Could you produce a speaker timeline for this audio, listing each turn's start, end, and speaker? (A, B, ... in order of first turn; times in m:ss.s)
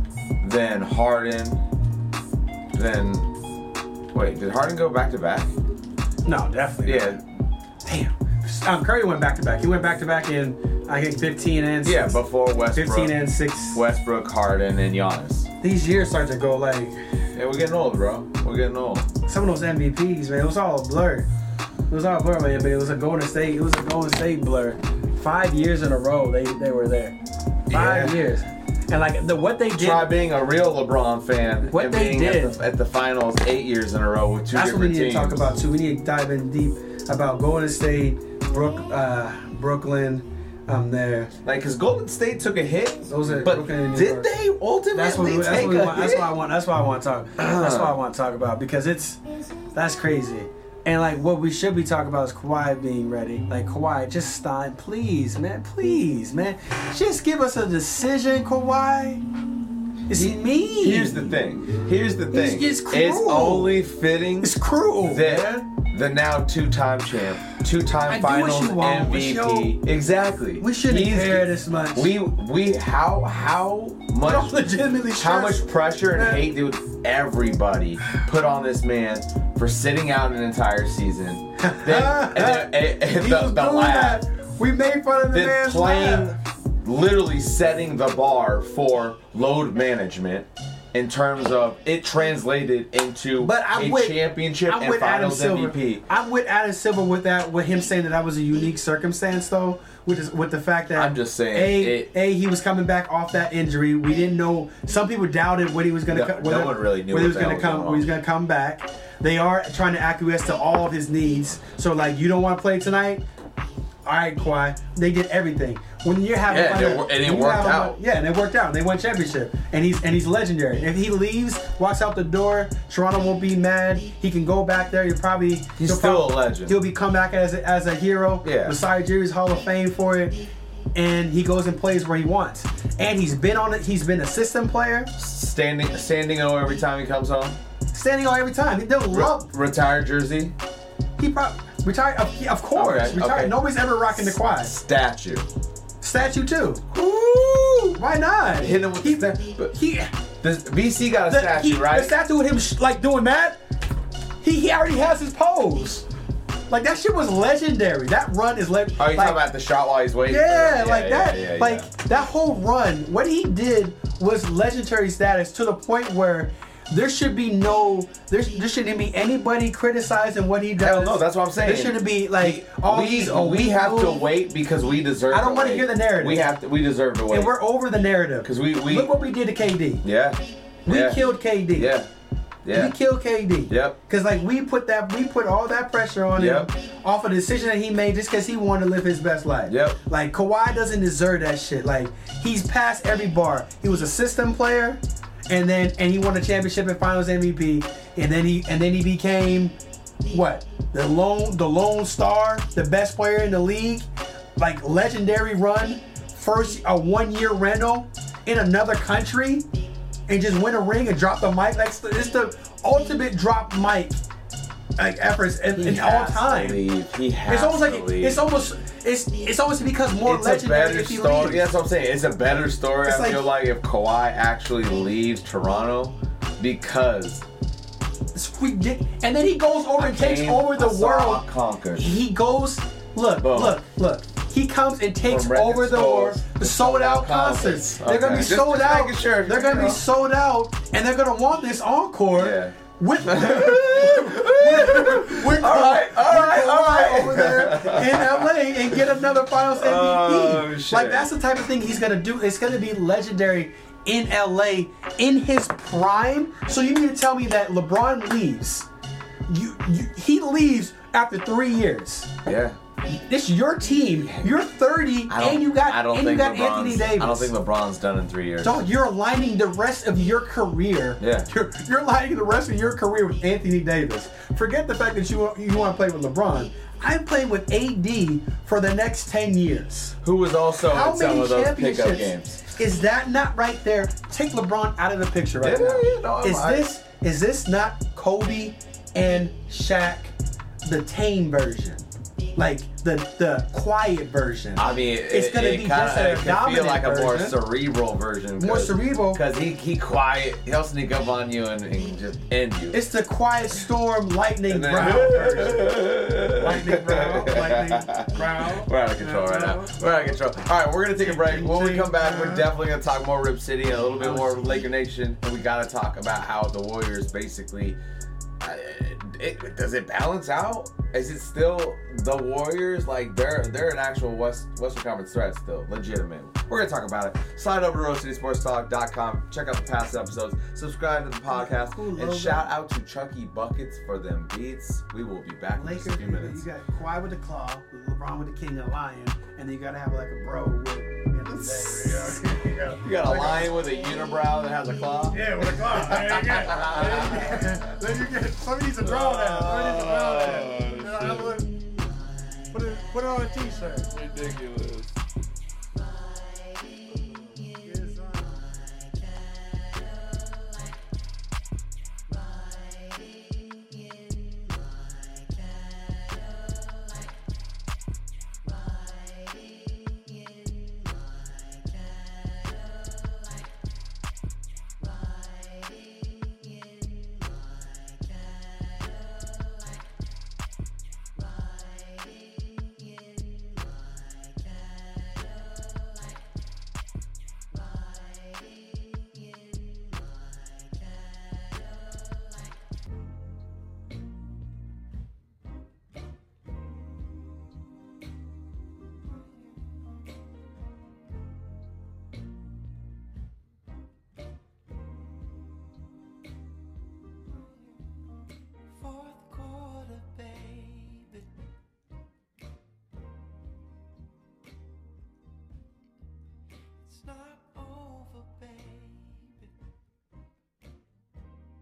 0:00.4-0:01.6 A
0:02.7-0:03.3 A
0:04.1-0:05.5 A
0:06.2-0:07.2 B
0:06.8-0:07.2 A
0:07.8-0:12.2 B
0:11.8-0:13.2 A
0:12.7-0:13.8 B
0:13.7-0:15.5 A
0:15.6-0:17.0 B
0:17.4-0:19.1 A
0:19.3-0:21.3 B
0:21.9-0:27.2 B
0:27.7-0:30.1 B
0:27.7-0:28.2 A
0:29.8-0:35.5 A
0:31.7-0:32.6 B
0:34.5-0:41.3 B
0:41.4-0:46.4 A
0:43.1-0:44.3 B
0:44.9-0:49.2 B
0:47.4-0:48.0 A
0:49.7-0:59.2 B
1:00.1-1:01.3 B
1:00.1-1:14.5 A
1:02.3-1:03.8 B
1:04.4-1:05.7 B
1:08.1-1:09.8 B
1:10.6-1:12.1 B
1:14.2-1:16.5 B
1:15.2-1:24.2 A
1:21.6-1:26.4 B
1:25.3-1:36.0 A
1:33.4-1:53.2 B
1:40.9-1:42.1 A
1:46.1-1:48.1 A
1:54.0-2:10.4 B
1:56.5-1:58.0 A
2:05.8-2:06.8 A
2:08.4-2:08.8 A
2:11.0-2:15.1 B
2:15.2-2:17.6 A
2:17.9-2:19.5 B
2:19.1-2:20.6 A
2:21.2-2:24.7 B
2:22.8-2:23.6 A
2:24.1-2:25.5 A
2:26.0-2:26.8 B
2:26.9-2:28.0 A
2:28.0-2:30.1 B
2:28.5-2:29.7 A
2:30.4-2:32.2 A
2:31.3-2:33.6 B
2:34.4-2:36.1 B
2:36.7-2:39.4 B
2:39.0-2:41.9 A
2:40.3-2:54.3 B
2:50.8-2:57.6 A
2:55.3-2:56.4 B
2:57.3-3:00.0 B
2:58.4-2:59.1 A
3:00.0-3:02.1 A
3:00.9-3:01.9 B
3:02.6-3:03.0 A
3:02.7-3:19.7 B
3:03.7-3:04.0 A
3:06.4-3:06.7 A
3:09.7-3:10.0 A
3:20.3-3:24.1 B
3:24.6-3:29.6 B
3:30.3-3:34.2 B
3:35.0-3:36.8 B
3:35.8-3:38.4 A
3:37.5-3:41.8 B
3:40.2-3:47.4 A
3:43.0-3:43.5 B
3:48.3-3:51.4 B
3:50.0-3:52.2 A
3:52.0-4:18.9 B
3:53.4-3:53.8 A
3:55.2-4:00.0 A
4:02.4-4:09.0 A
4:09.8-4:11.3 A
4:19.5-4:22.4 B
4:22.4-4:22.8 A
4:23.1-4:27.5 B
4:25.3-4:28.8 A
4:28.6-4:40.2 B
4:31.2-4:31.5 A
4:40.2-4:42.6 A
4:40.8-4:50.3 B
4:45.6-4:46.9 A
4:50.8-4:52.0 B
4:52.6-4:57.6 B
4:54.8-5:03.0 A
4:58.6-4:59.4 B
5:02.9-5:10.0 B
5:04.7-5:18.0 A
5:11.2-5:12.7 B
5:14.2-5:14.8 B
5:18.6-5:36.6 A
5:31.5-5:32.7 B
5:35.7-5:43.7 B
5:41.5-5:47.9 A
5:45.3-5:51.8 B
5:49.0-5:51.6 A
5:52.7-5:54.1 B
5:54.1-5:55.2 A
5:57.2-5:58.7 B
6:49.1-6:51.4 B
6:57.5-6:59.6 B